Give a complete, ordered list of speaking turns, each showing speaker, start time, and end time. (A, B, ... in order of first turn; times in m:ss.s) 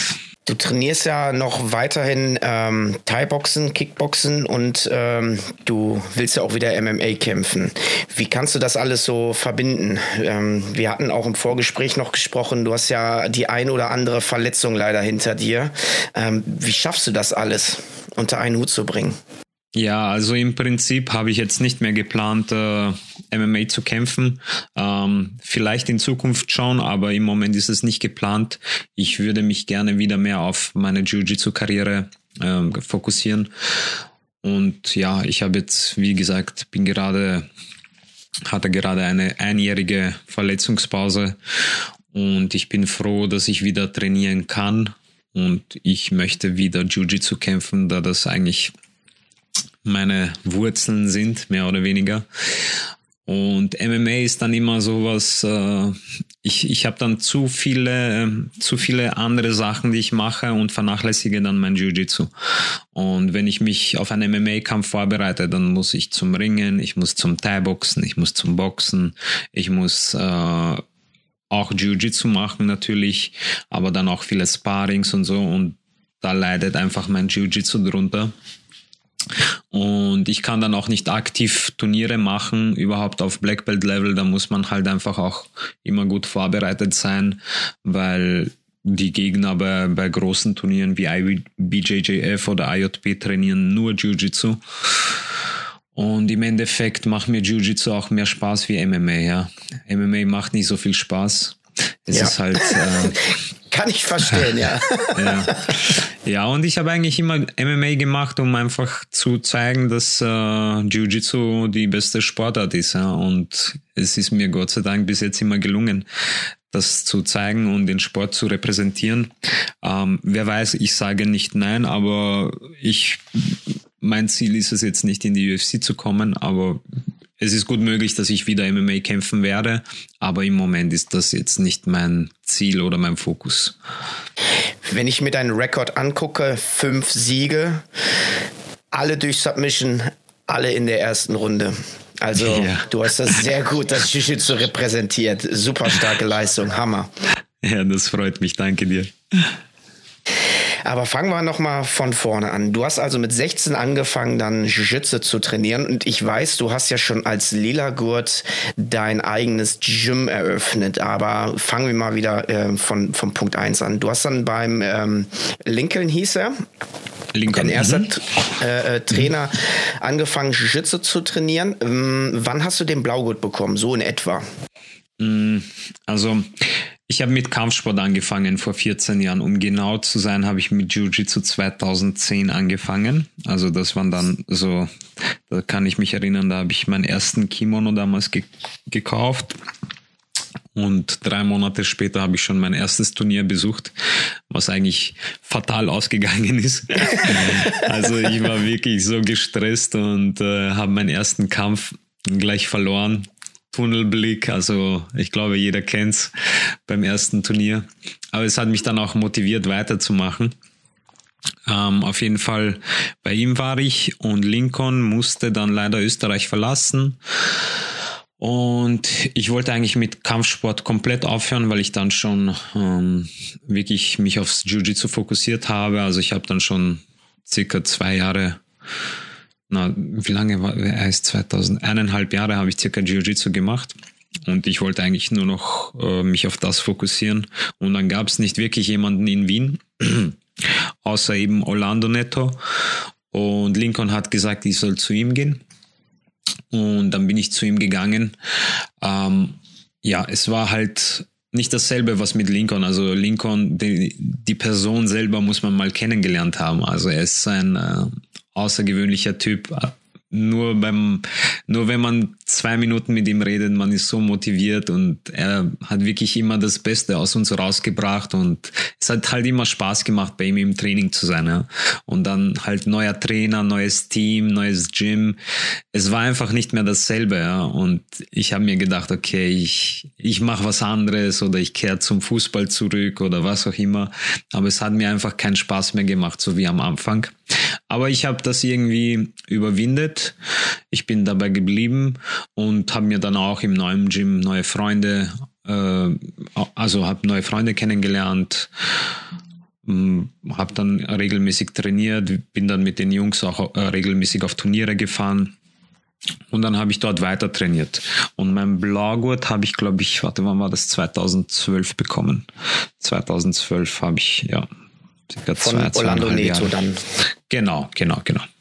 0:00.4-0:19.2 A
0:19.7-0:33.5 B
0:34.4-0:37.5 B
0:38.5-0:48.7 B
0:49.8-1:02.3 B
1:02.9-1:10.8 B
1:11.5-1:18.3 B
1:19.7-1:35.1 B
1:35.9-1:43.3 B
1:42.1-1:42.8 A
1:43.7-1:45.7 A
1:45.1-1:56.1 B
1:56.7-2:06.8 B
2:07.4-2:13.8 B
2:14.8-2:17.8 A
2:18.9-2:27.1 A
2:22.4-2:23.3 B
2:27.6-2:29.6 B
2:30.8-2:46.6 A
2:47.3-2:48.1 B
2:47.5-2:54.4 A
2:55.2-3:09.6 B
3:10.7-3:13.9 B
3:14.5-3:30.5 B
3:31.6-3:37.6 B
3:38.4-3:48.6 B
3:49.7-4:02.6 B
4:03.3-4:05.6 B
4:06.7-4:08.4 B
4:09.0-4:35.4 B
4:35.9-4:50.4 B
4:50.9-4:59.1 B
4:59.8-5:05.5 B
5:06.5-5:12.5 B
5:13.0-5:14.7 B
5:15.3-5:16.8 B
5:15.6-5:17.0 A
5:17.5-5:18.5 B